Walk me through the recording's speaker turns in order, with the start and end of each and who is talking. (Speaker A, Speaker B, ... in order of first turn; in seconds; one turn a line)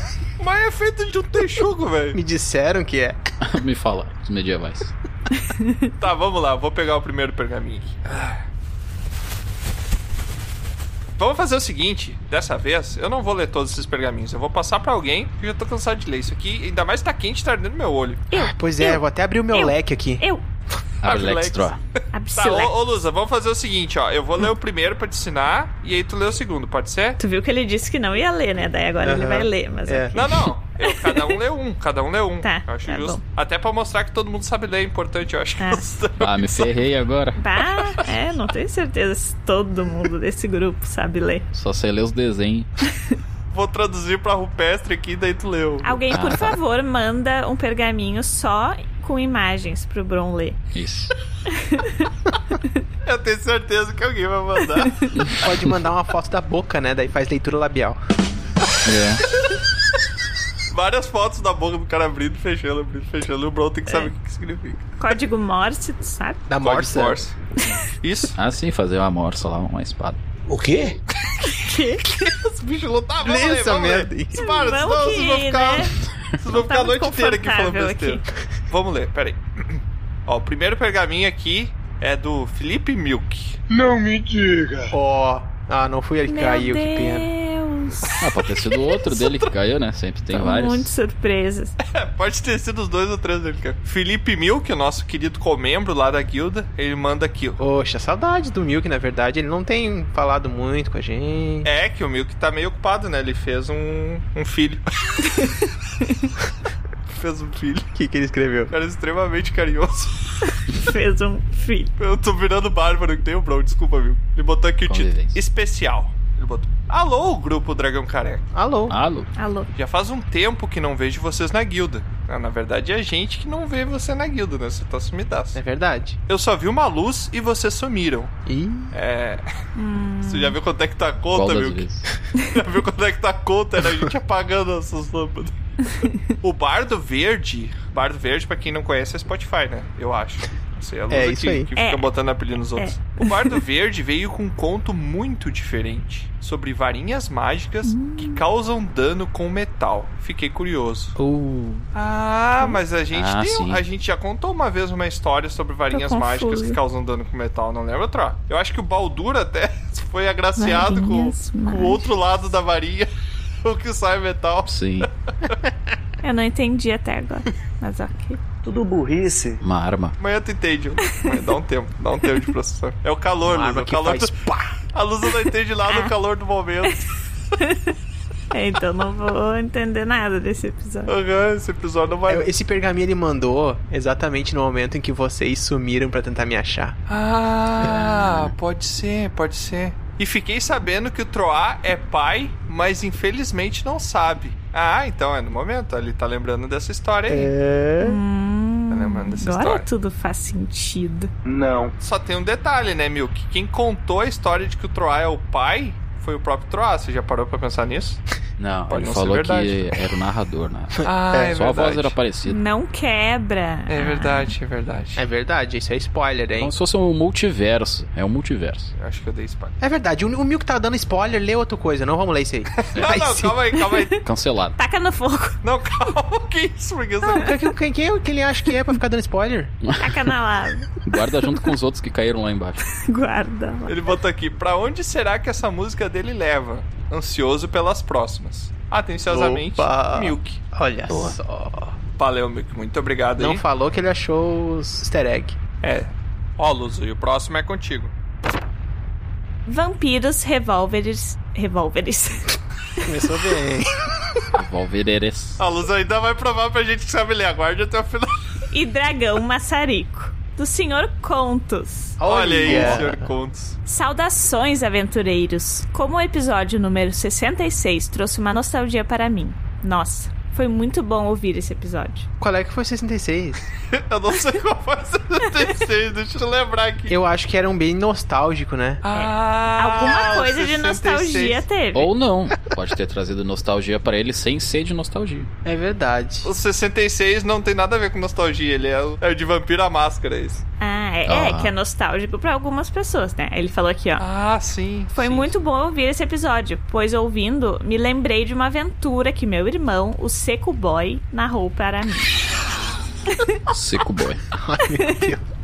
Speaker A: 0.4-2.2
Speaker B: 2.1-3.2
Speaker C: 3.4-4.9
Speaker D: 5.5-5.8
Speaker A: 6.0-8.4
Speaker A: 11.2-18.2
Speaker D: 18.3-20.4
Speaker B: 18.3-20.2
Speaker A: 21.0-21.7
Speaker C: 21.0-21.8
Speaker D: 22.1-22.7
Speaker A: 22.3-27.2
Speaker D: 27.2-30.3
Speaker B: 29.0-30.2
Speaker A: 30.1-36.8
Speaker D: 30.8-31.4
Speaker D: 32.4-33.2
Speaker D: 35.6-35.8
Speaker C: 36.2-37.4
Speaker D: 37.4-41.5
Speaker C: 41.5-42.7
Speaker A: 43.5-46.0
Speaker D: 45.8-50.6
Speaker C: 46.1-46.6
Speaker C: 50.7-51.1
Speaker D: 51.5-52.1
Speaker A: 53.0-55.0
Speaker D: 54.7-55.3
Speaker B: 55.3-58.0
Speaker C: 58.8-59.2
Speaker A: 60.7-64.9
Speaker D: 63.9-64.1
Speaker D: 65.0-66.4
Speaker B: 66.5-67.2
Speaker A: 66.6-67.3
Speaker A: 68.0-68.3
Speaker C: 68.3-70.2
Speaker E: 70.5-71.0
Speaker A: 71.3-71.5
Speaker D: 71.4-72.1
Speaker A: 72.0-83.6
Speaker B: 73.2-74.4
Speaker D: 74.3-78.2
Speaker E: 83.7-84.9
Speaker B: 84.9-87.3
Speaker D: 86.3-88.1
Speaker C: 88.2-90.9
Speaker D: 90.3-91.8
Speaker A: 91.8-97.6
Speaker B: 97.6-101.7
Speaker A: 101.6-104.8
Speaker A: 107.1-107.9
Speaker B: 107.9-108.7
Speaker A: 108.7-110.2
Speaker D: 110.5-111.9
Speaker A: 112.0-118.5
Speaker C: 114.9-115.4
Speaker B: 118.5-119.0
Speaker C: 118.9-119.3
Speaker D: 119.3-119.7
Speaker A: 119.7-125.6
Speaker B: 125.5-126.2
Speaker A: 126.3-128.3
Speaker B: 128.4-128.9
Speaker A: 128.9-129.4
Speaker D: 129.8-130.6
Speaker A: 130.2-131.8
Speaker C: 131.3-132.1
Speaker A: 132.4-135.5
Speaker A: 136.4-151.1
Speaker B: 141.1-141.7
Speaker D: 141.8-142.1
Speaker D: 142.7-143.6
Speaker D: 147.8-148.4
Speaker B: 151.2-151.9
Speaker A: 151.9-163.1
Speaker C: 153.1-153.8
Speaker D: 155.9-156.8
Speaker D: 160.6-162.1
Speaker A: 163.6-165.5
Speaker C: 164.7-165.1
Speaker D: 166.2-168.4
Speaker E: 168.6-169.6
Speaker C: 169.6-170.2
Speaker A: 170.2-174.3
Speaker B: 173.4-174.7
Speaker A: 174.9-177.1
Speaker D: 175.9-176.1
Speaker D: 177.6-177.9
Speaker D: 178.5-181.1
Speaker A: 181.1-182.5
Speaker B: 182.3-186.9
Speaker A: 187.1-197.5
Speaker C: 187.8-188.5
Speaker B: 197.3-198.2
Speaker D: 198.0-201.3
Speaker A: 198.9-199.9
Speaker E: 201.4-201.9
Speaker A: 202.0-208.2
Speaker C: 208.6-212.6
Speaker A: 208.9-209.9
Speaker B: 211.0-211.5
Speaker A: 211.0-212.2
Speaker D: 212.4-214.5
Speaker A: 213.9-215.2
Speaker B: 215.2-216.7
Speaker C: 216.6-218.9
Speaker A: 219.0-219.8
Speaker B: 219.8-223.6
Speaker A: 222.8-224.2
Speaker D: 223.8-224.1
Speaker C: 224.2-224.8
Speaker D: 224.8-225.6
Speaker A: 225.6-227.6
Speaker B: 227.3-229.7
Speaker C: 229.9-230.3
Speaker D: 230.0-230.9
Speaker C: 231.0-232.8
Speaker D: 233.0-234.1
Speaker A: 233.9-240.6
Speaker B: 239.3-241.9
Speaker C: 241.1-241.4
Speaker A: 242.2-243.6
Speaker B: 243.4-245.6
Speaker A: 245.8-248.1
Speaker D: 249.7-253.1
Speaker B: 253.0-253.9
Speaker C: 254.5-255.6
Speaker A: 255.6-258.3
Speaker D: 258.7-262.2
Speaker B: 262.2-263.2
Speaker A: 262.2-263.8
Speaker D: 263.9-272.3
Speaker B: 272.4-273.6
Speaker A: 273.9-277.1
Speaker B: 277.1-279.0
Speaker A: 279.0-281.6
Speaker D: 279.1-282.1
Speaker C: 281.9-285.5
Speaker B: 285.6-286.5
Speaker A: 286.4-290.6
Speaker D: 290.8-294.2
Speaker C: 291.3-291.7
Speaker A: 294.2-295.5
Speaker D: 295.1-302.4
Speaker C: 303.7-304.4
Speaker B: 304.5-305.4